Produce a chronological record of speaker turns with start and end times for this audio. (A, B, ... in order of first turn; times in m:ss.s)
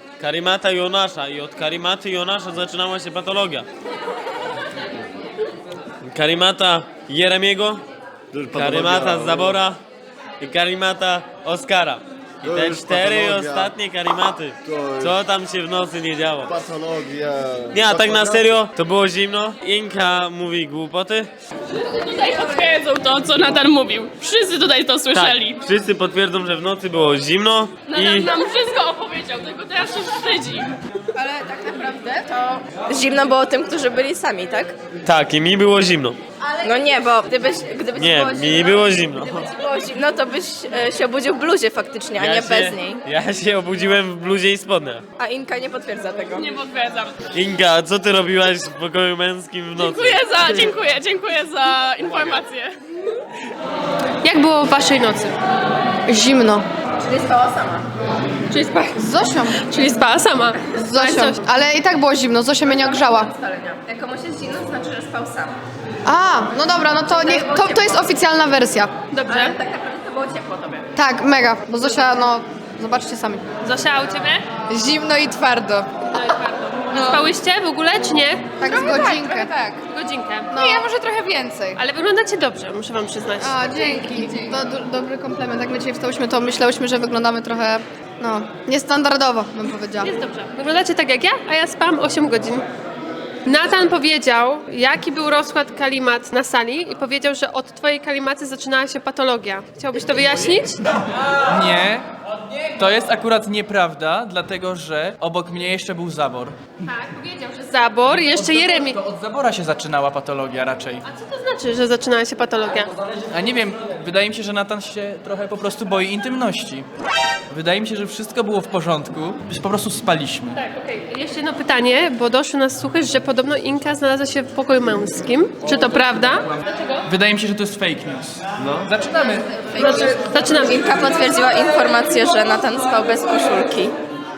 0:00.2-0:03.6 A
0:06.0-0:07.8 A
0:08.3-0:09.6 B
0:08.5-0:09.8 A
0:10.4-0:16.5 A
0:12.4-0:13.7 B
0:14.6-0:15.2 B
0:16.4-0:18.6 B
0:17.7-0:21.3 A
0:21.8-0:25.6 C
0:25.1-0:28.3 A
0:27.8-0:30.7 C
0:31.2-0:34.7 D
0:35.0-0:36.2 A
0:36.6-0:43.0 D
0:37.9-0:39.5 A
0:42.2-0:45.0 A
0:45.2-0:46.5 D
0:46.4-0:47.2 C
0:47.3-0:50.6 A
0:49.8-0:52.8 C
0:54.2-0:55.3 E
0:56.1-0:56.6 F
0:57.0-0:57.9 D
0:58.5-0:58.9 D
0:58.9-0:59.6 F
0:59.6-1:01.4 E
1:00.7-1:03.3 F
1:02.8-1:05.6 D
1:06.0-1:08.9 F
1:07.2-1:07.9 D
1:09.1-1:09.6 E
1:09.3-1:10.8 D
1:10.9-1:13.4 F
1:13.6-1:14.4 E
1:14.7-1:15.9 F
1:16.1-1:20.8 E
1:16.9-1:17.2 F
1:18.6-1:19.8 F
1:20.5-1:21.8 F
1:21.8-1:24.5 E
1:23.4-1:30.1 F
1:30.0-1:32.6 E
1:33.4-1:40.8 E
1:41.4-1:42.1 G
1:42.8-1:46.6 G
1:46.8-1:49.0 E
1:48.1-1:51.0 G
1:51.0-1:52.9 E
1:53.2-1:56.8 G
1:57.5-2:00.6 G
2:00.5-2:06.9 E
2:07.0-2:09.5 G
2:09.7-2:13.9 D
2:09.8-2:10.8 E